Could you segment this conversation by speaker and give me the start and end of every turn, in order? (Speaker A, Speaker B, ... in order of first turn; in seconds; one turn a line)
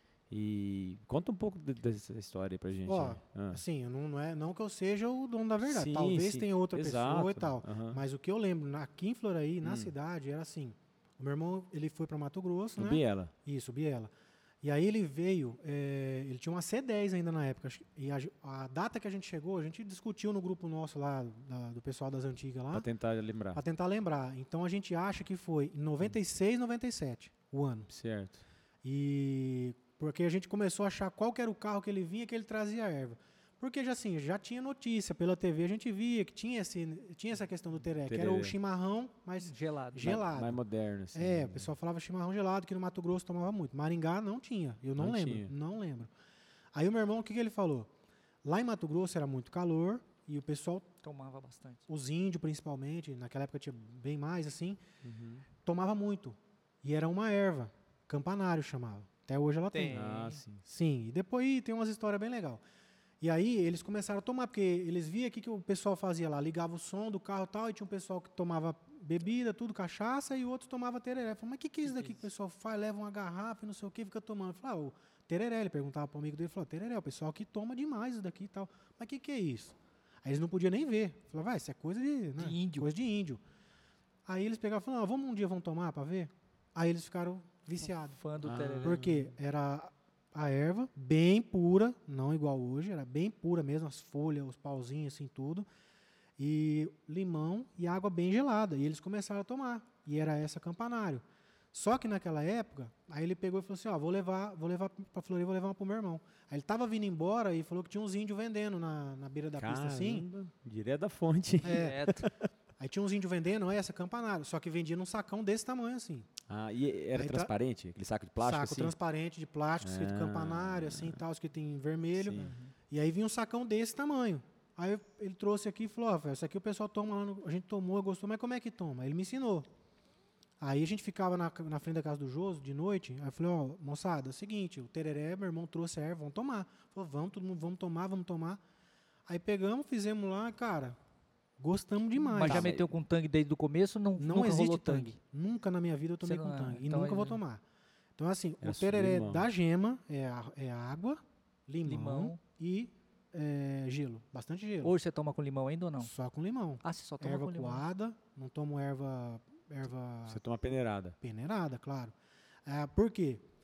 Speaker A: 0.3-3.6
Speaker B: 2.9-14.1
Speaker A: 5.6-8.0
Speaker A: 9.6-9.9
Speaker A: 12.8-13.3
Speaker B: 14.6-22.9
Speaker A: 22.7-23.6
Speaker B: 23.5-27.9
Speaker A: 27.9-28.4
Speaker B: 28.8-40.6
Speaker A: 38.0-38.5
Speaker C: 39.4-40.2
Speaker A: 40.0-41.7
Speaker B: 41.1-46.1
Speaker A: 45.0-45.5
Speaker B: 46.7-47.9
Speaker B: 48.4-50.9
Speaker C: 51.0-51.8
Speaker B: 51.9-54.8
Speaker A: 55.0-55.5
Speaker B: 55.6-62.6
Speaker C: 59.7-60.4
Speaker A: 59.9-60.6
Speaker B: 63.2-83.4
Speaker C: 71.9-72.2
Speaker C: 82.4-82.9
Speaker B: 84.3-88.2
Speaker C: 87.9-89.1
Speaker A: 88.4-89.1
Speaker B: 88.8-95.7
Speaker B: 96.4-110.3
Speaker A: 109.6-112.5
Speaker B: 111.6-112.0
Speaker C: 111.6-112.3
Speaker B: 112.8-116.3
Speaker A: 116.5-118.9
Speaker B: 117.1-117.5
Speaker B: 118.4-129.7
Speaker A: 119.8-121.2
Speaker A: 122.2-122.5
Speaker C: 122.4-122.7
Speaker B: 130.6-138.6
Speaker B: 139.3-141.0
Speaker B: 141.6-142.7
Speaker C: 142.2-145.2
Speaker A: 142.4-142.9
Speaker B: 144.2-147.6
Speaker C: 146.2-147.4
Speaker B: 148.2-154.9
Speaker A: 148.6-149.5
Speaker C: 151.8-152.4
Speaker C: 154.8-156.1
Speaker B: 156.0-160.4
Speaker C: 156.8-157.8
Speaker A: 160.3-161.2
Speaker B: 161.2-162.1
Speaker B: 162.7-163.4